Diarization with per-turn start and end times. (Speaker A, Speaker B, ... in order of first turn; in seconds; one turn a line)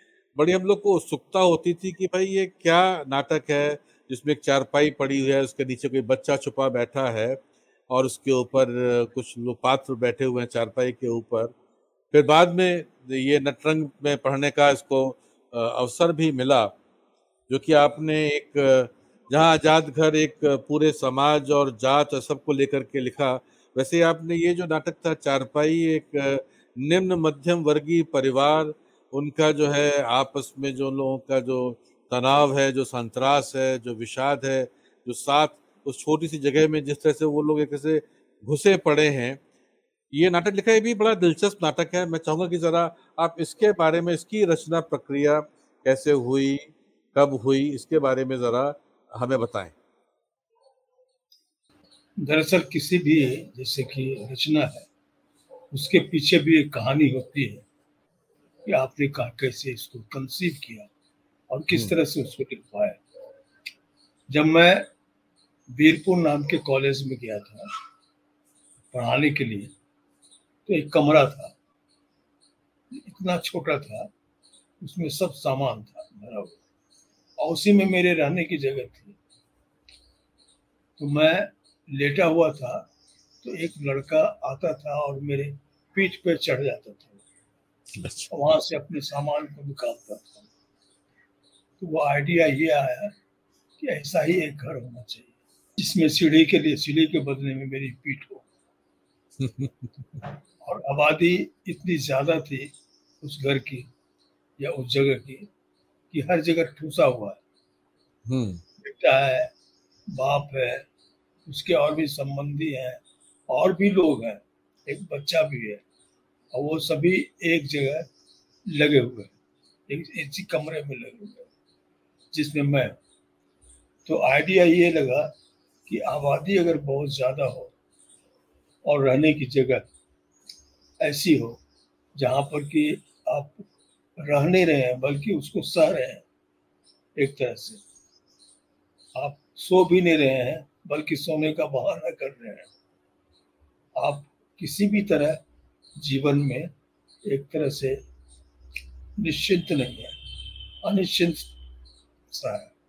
Speaker A: 0.4-7.4
Speaker A: 7.9-11.5
Speaker A: 12.1-16.7
Speaker A: 17.5-39.4
Speaker A: 40.1-49.7
Speaker B: 52.2-54.9
Speaker B: 55.7-57.6
Speaker B: 58.6-60.9
Speaker B: 61.5-63.0
Speaker B: 64.3-64.9
Speaker B: 65.7-67.7
Speaker B: 68.9-69.7
Speaker B: 70.7-71.5
Speaker B: 72.9-74.1
Speaker B: 74.8-76.6
Speaker B: 77.4-79.2
Speaker B: 81.0-82.9
Speaker B: 83.4-87.2
Speaker A: 87.9-88.3
Speaker B: 88.3-90.5
Speaker B: 91.8-93.1
Speaker B: 93.8-98.5
Speaker A: 99.4-99.9
Speaker B: 100.6-103.9
Speaker B: 104.6-105.5
Speaker B: 106.1-107.4
Speaker A: 108.3-108.6
Speaker B: 108.8-109.5
Speaker B: 110.1-110.9
Speaker B: 111.5-115.8
Speaker B: 116.5-118.1
Speaker B: 118.7-119.3
Speaker B: 119.9-121.5
Speaker B: 122.3-123.0
Speaker B: 124.0-125.3
Speaker B: 125.9-127.7
Speaker B: 128.8-129.9
Speaker B: 131.0-131.6
Speaker B: 132.2-133.7
Speaker B: 134.2-136.2
Speaker B: 137.2-137.8
Speaker B: 139.2-142.7
Speaker B: 144.0-145.4
Speaker B: 146.0-146.7
Speaker B: 147.3-148.0
Speaker B: 149.2-150.2
Speaker B: 150.8-151.6
Speaker B: 152.3-152.7